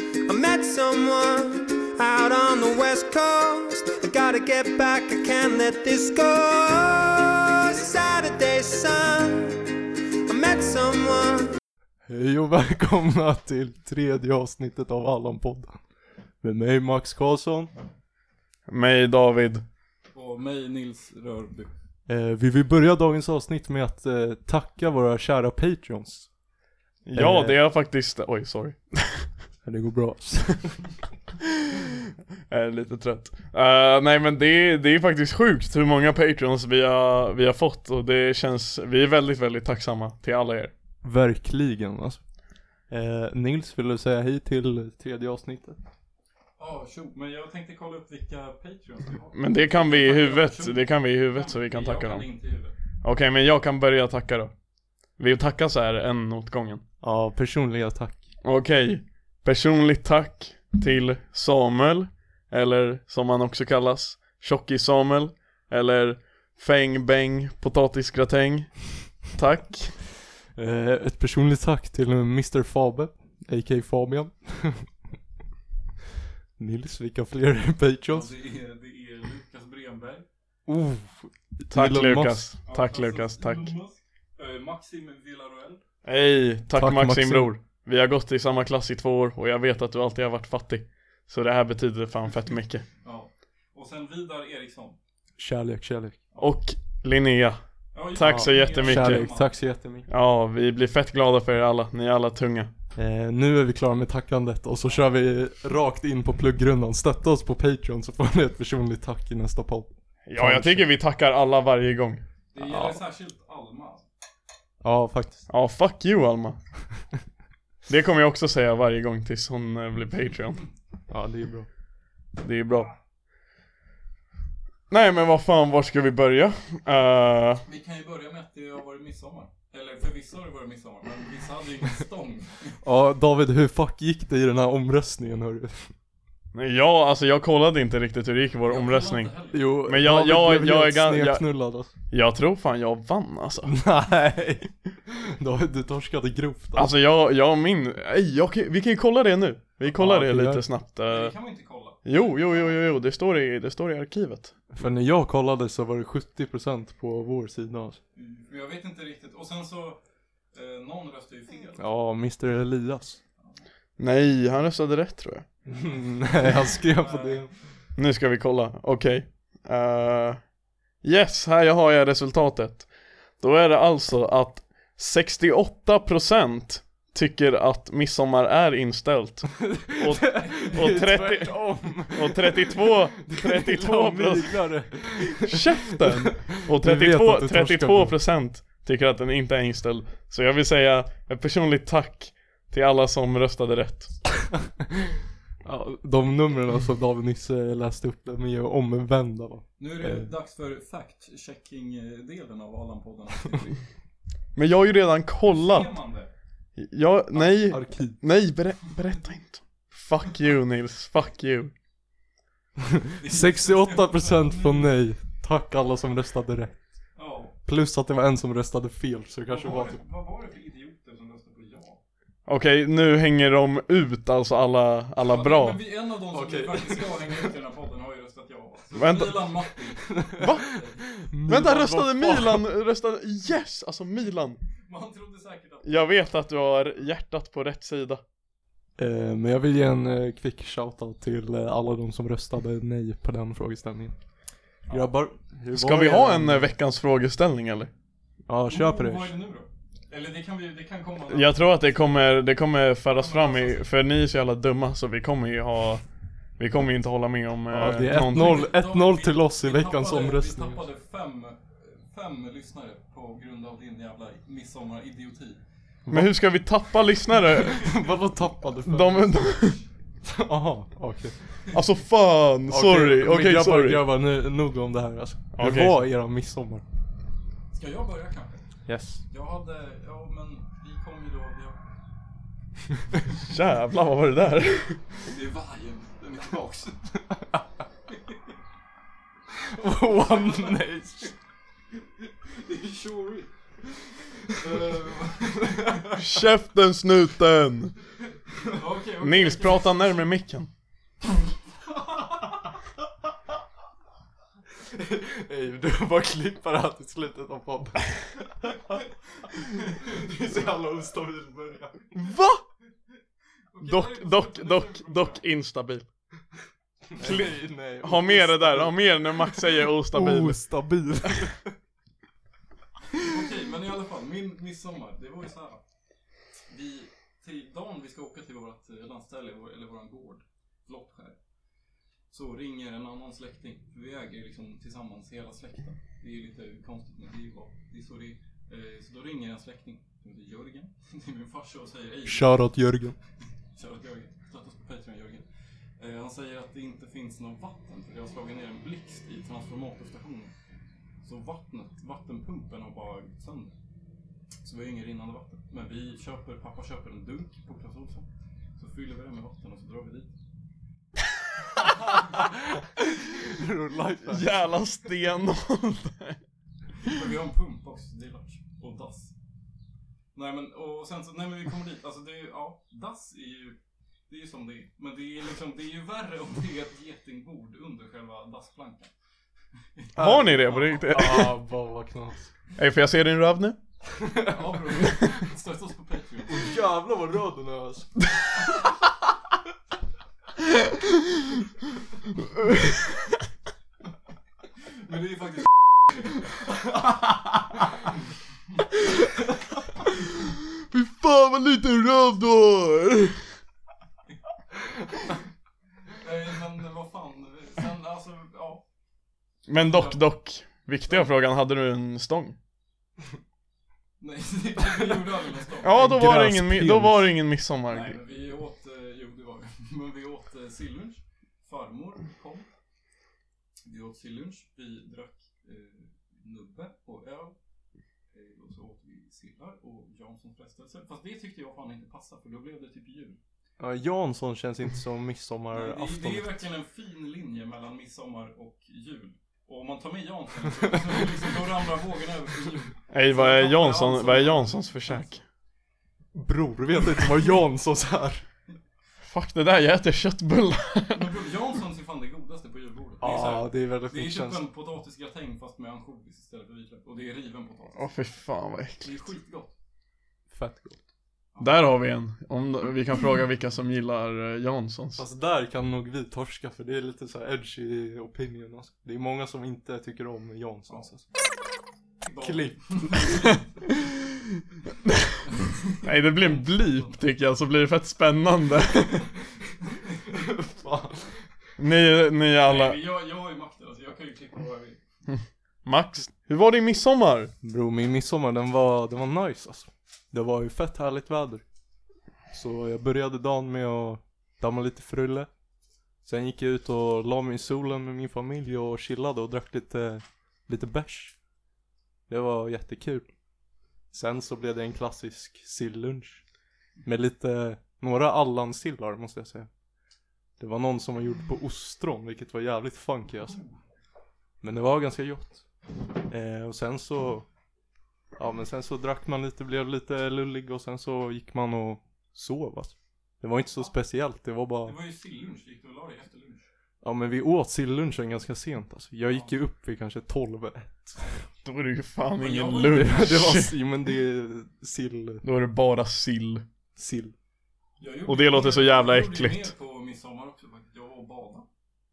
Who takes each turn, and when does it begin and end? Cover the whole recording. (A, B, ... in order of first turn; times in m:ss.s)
0:00.3-0:11.6 A
0:12.1-0:15.8 B
0:16.4-0:17.7 B
0:18.7-0:19.6 C
0:20.1-0:21.7 D
0:22.1-0:26.3 B
0:27.0-0:29.3 C
0:27.1-0:27.6 B
0:29.6-0:31.0 B
0:32.5-0:40.7 C
0:41.0-0:42.2 B
0:42.9-0:45.8 B
0:46.6-0:52.8 D
0:49.3-0:52.3 C
0:53.0-0:54.5 C
0:55.2-0:56.8 C
0:57.0-0:58.2 B
0:58.4-1:10.0 C
1:10.4-1:14.9 B
1:16.6-1:18.3 B
1:18.1-1:20.3 D
1:20.7-1:22.5 B
1:21.7-1:23.7 C
1:22.7-1:25.8 D
1:26.0-1:32.8 C
1:26.7-1:27.5 B
1:33.0-1:35.0 D
1:35.4-1:36.2 B
1:36.4-1:37.6 C
1:37.9-1:39.5 D
1:38.1-1:39.3 C
1:38.2-1:40.1 B
1:40.1-1:42.7 C
1:43.0-1:50.8 B
1:50.3-1:52.2 C
1:52.5-1:54.1 D
1:54.8-1:55.5 B
1:55.5-1:56.6 C
1:57.9-2:00.6 C
2:01.1-2:01.7 B
2:02.4-2:02.9 C
2:04.9-2:07.6 C
2:07.7-2:12.8 D
2:12.8-2:15.9 B
2:16.5-2:19.3 C
2:18.7-2:19.7 D
2:19.5-2:21.9 B
2:19.8-2:21.5 C
2:22.1-2:23.8 C
2:23.6-2:26.9 B
2:26.8-2:31.3 C
2:29.9-2:30.7 B
2:31.0-2:32.8 D
2:32.0-2:34.5 C
2:34.7-2:38.0 B
2:38.2-2:40.0 D
2:40.5-2:41.9 D
2:41.8-2:43.2 B
2:44.0-2:45.5 C
2:45.7-2:47.5 B
2:46.8-2:47.4 D
2:48.0-2:50.4 C
2:51.0-3:04.6 C
2:59.7-3:08.2 B
3:00.3-3:01.5 D
3:05.3-3:14.2 C
3:15.6-3:20.3 B
3:19.8-3:23.8 D
3:24.6-3:25.9 C
3:25.4-3:26.3 D
3:26.8-3:31.7 C
3:27.7-3:28.2 B
3:33.1-3:36.8 B
3:33.2-3:35.0 D
3:37.2-3:37.6 D
3:37.6-3:40.0 B
3:39.5-3:42.0 D
3:42.5-3:45.8 C
3:45.2-3:51.1 D
3:46.3-3:47.5 B
3:49.0-3:49.5 C
3:50.1-3:50.6 B
3:50.4-3:50.8 C
3:51.2-3:52.7 B
3:51.5-3:54.6 C
3:54.8-3:56.0 D
3:55.8-3:58.2 C
3:59.0-4:04.2 B
4:04.9-4:06.7 B
4:05.7-4:07.9 C
4:08.5-4:09.3 B
4:08.7-4:11.9 D
4:11.3-4:16.0 C
4:13.1-4:13.9 D
4:16.6-4:18.7 C
4:17.7-4:20.8 B
4:18.2-4:25.6 D
4:26.1-4:26.3 B
4:26.1-4:27.9 C
4:27.6-4:29.4 B
4:28.9-4:29.8 C
4:30.2-4:31.5 B
4:31.7-4:34.0 C
4:32.7-4:36.8 B
4:35.6-4:36.0 C
4:37.7-4:38.7 D
4:38.9-4:39.2 B
4:39.3-4:41.8 D
4:43.4-4:45.0 C
4:45.2-4:47.2 D
4:49.5-4:51.4 B
4:50.2-4:50.8 D
4:52.5-4:53.5 D
4:54.5-4:56.2 D
4:54.7-4:55.0 B
4:55.6-4:56.2 B
4:56.1-4:58.0 C
4:58.7-5:00.3 D
4:59.2-5:00.7 C
5:04.9-5:09.0 B
5:09.6-5:12.1 B
5:12.2-5:12.6 C
5:13.7-5:15.4 D
5:13.8-5:16.1 C
5:17.1-5:21.7 B
5:17.2-5:20.6 C
5:23.2-5:25.8 D
5:26.7-5:31.4 D
5:32.3-5:42.6 D
5:42.3-5:43.2 B
5:43.8-5:45.4 D
5:46.0-5:50.5 D
5:51.2-5:53.8 D
5:54.6-6:00.4 D
6:02.4-6:04.6 B
6:04.2-6:06.4 C
6:07.0-6:09.3 D
6:10.4-6:13.8 D
6:14.3-6:19.1 D
6:20.0-6:21.0 D
6:20.2-6:21.6 C
6:20.2-6:22.5 B
6:22.8-6:23.8 C
6:24.2-6:24.6 B
6:24.4-6:26.7 D
6:26.5-6:28.2 B
6:30.9-6:31.2 C
6:32.4-6:33.4 C
6:35.0-6:35.7 D
6:40.1-6:43.5 C
6:46.1-6:48.8 D
6:49.7-6:52.6 C
6:49.9-6:50.2 D
6:51.1-6:51.3 D
6:54.2-6:56.0 D
6:54.9-6:55.2 B
6:55.8-6:57.3 B
6:55.8-6:58.2 C
6:57.9-7:02.7 D
7:03.8-7:07.6 D
7:08.3-7:13.4 D
7:13.8-7:16.6 B
7:15.7-7:25.3 D
7:23.1-7:25.4 C
7:26.3-7:28.4 B
7:29.2-7:31.3 C
7:31.1-7:38.2 D
7:33.2-7:34.6 B
7:38.0-7:39.2 C
7:39.0-7:39.7 D
7:40.5-7:41.0 B
7:41.5-7:41.9 D
7:41.6-7:45.2 C
7:45.2-7:51.3 B
7:52.2-7:53.7 D
7:52.4-7:53.5 B
7:55.4-7:57.2 D
7:56.0-7:59.3 C
8:00.3-8:01.5 B
8:01.8-8:03.0 C
8:02.6-8:05.0 D
8:05.3-8:07.5 C
8:07.6-8:11.6 B
8:12.5-8:15.5 B
8:16.2-8:21.4 B
8:22.3-8:23.3 B
8:24.1-8:26.4 B
8:27.0-8:29.7 B
8:30.6-8:33.6 B
8:33.5-8:33.7 D
8:34.6-8:35.6 B
8:36.3-8:37.5 B
8:38.4-8:45.0 B
8:44.8-8:46.6 D
8:47.0-8:51.2 B
8:51.2-8:51.5 D
8:51.6-8:53.7 C
8:52.4-8:53.3 D
8:52.8-8:55.5 B
8:55.4-8:56.6 C
8:57.0-8:57.3 B
8:58.0-9:01.7 D
8:58.3-8:59.7 C